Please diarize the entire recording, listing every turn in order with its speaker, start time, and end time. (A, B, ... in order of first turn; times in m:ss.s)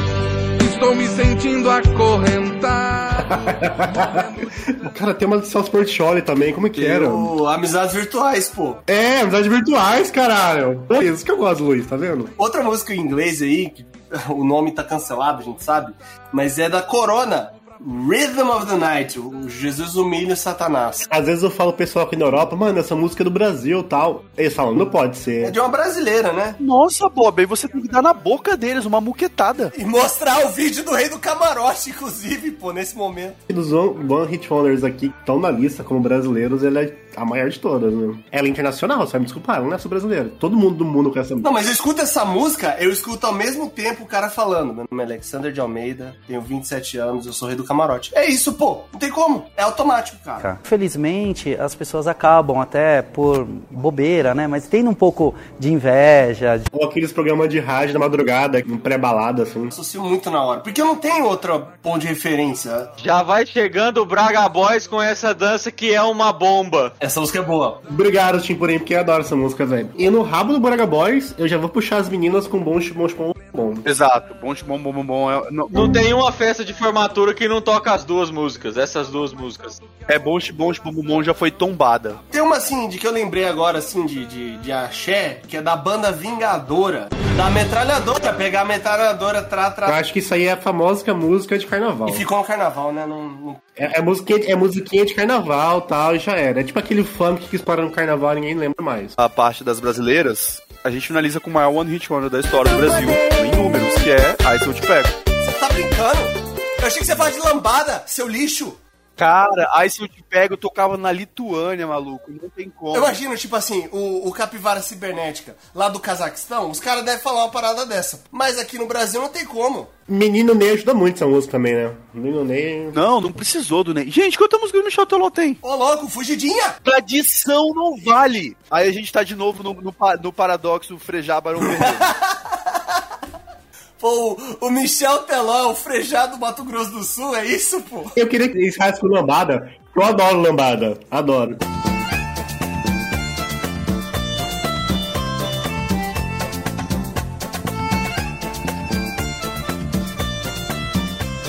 0:00.6-0:04.1 A
0:03.2-0:07.3 B
0:06.8-0:08.8 C
0:08.9-0:12.3 B
0:12.4-0:21.1 C
0:21.1-0:25.6 B
0:25.4-0:26.6 C
0:26.6-0:29.7 D
0:29.7-0:33.4 C
0:33.5-0:41.5 B
0:41.4-0:50.5 C
0:50.4-0:56.7 E
0:56.7-0:59.7 B
0:59.7-1:02.9 C
1:03.0-1:06.9 F
1:07.0-1:07.8 C
1:07.8-1:13.8 B
1:13.8-1:15.9 D
1:15.7-1:19.8 F
1:20.1-1:22.2 D
1:22.3-1:30.0 C
1:29.8-1:32.2 B
1:32.1-1:33.6 C
1:33.8-1:39.2 B
1:39.2-1:45.2 D
1:45.4-1:48.8 C
1:49.2-1:53.2 D
1:52.9-1:59.9 C
2:00.1-2:03.0 B
2:02.9-2:05.6 D
2:05.6-2:06.8 C
2:06.8-2:12.1 D
2:11.6-2:12.8 C
2:14.0-2:18.1 C
2:18.2-2:21.6 B